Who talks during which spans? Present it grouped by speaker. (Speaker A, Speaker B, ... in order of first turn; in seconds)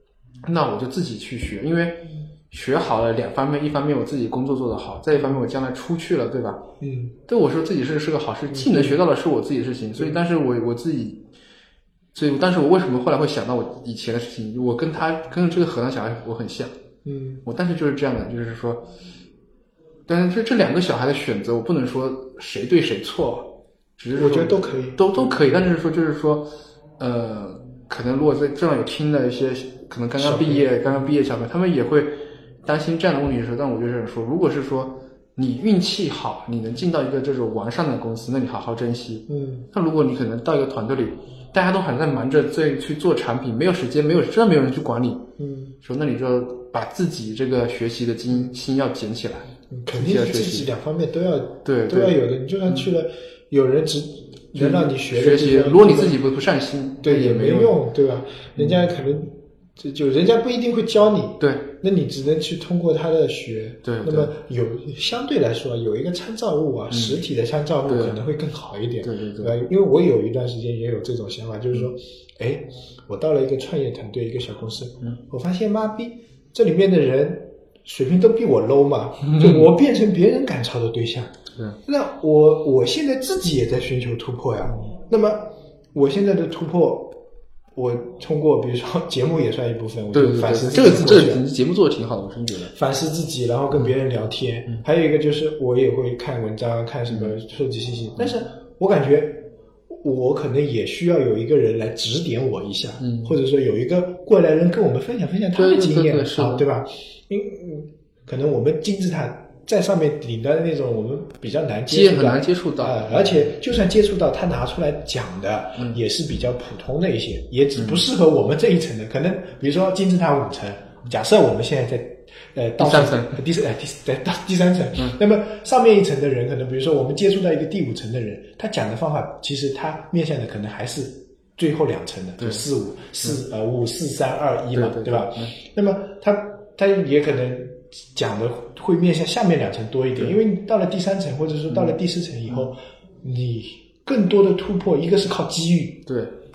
Speaker A: 0.4-6.6, 7.3-11.2, 12.1-16.7, 17.4-18.9, 20.1-45.3, 45.8-50.7, 51.6-52.2, 54.5-57.8, 58.5-58.9, 61.4-61.6, 63.8-64.3, 66.9-67.2, 67.8-68.2, 69.0-69.6, 79.2-79.7, 90.1-92.7, 97.1-97.3, 103.0-103.3, 105.5-106.7, 111.9-113.5, 117.8-118.0, 122.8-123.4, 132.4-132.6, 134.7-135.5, 141.7-142.0, 146.1-146.3
Speaker B: 5.1-5.5, 6.8-7.1, 8.5-9.0, 17.0-17.4, 24.1-25.0, 30.2-31.0, 39.3-39.6, 45.4-45.8, 49.7-56.2, 57.0-81.3, 81.8-87.2, 87.7-91.4, 92.7-146.1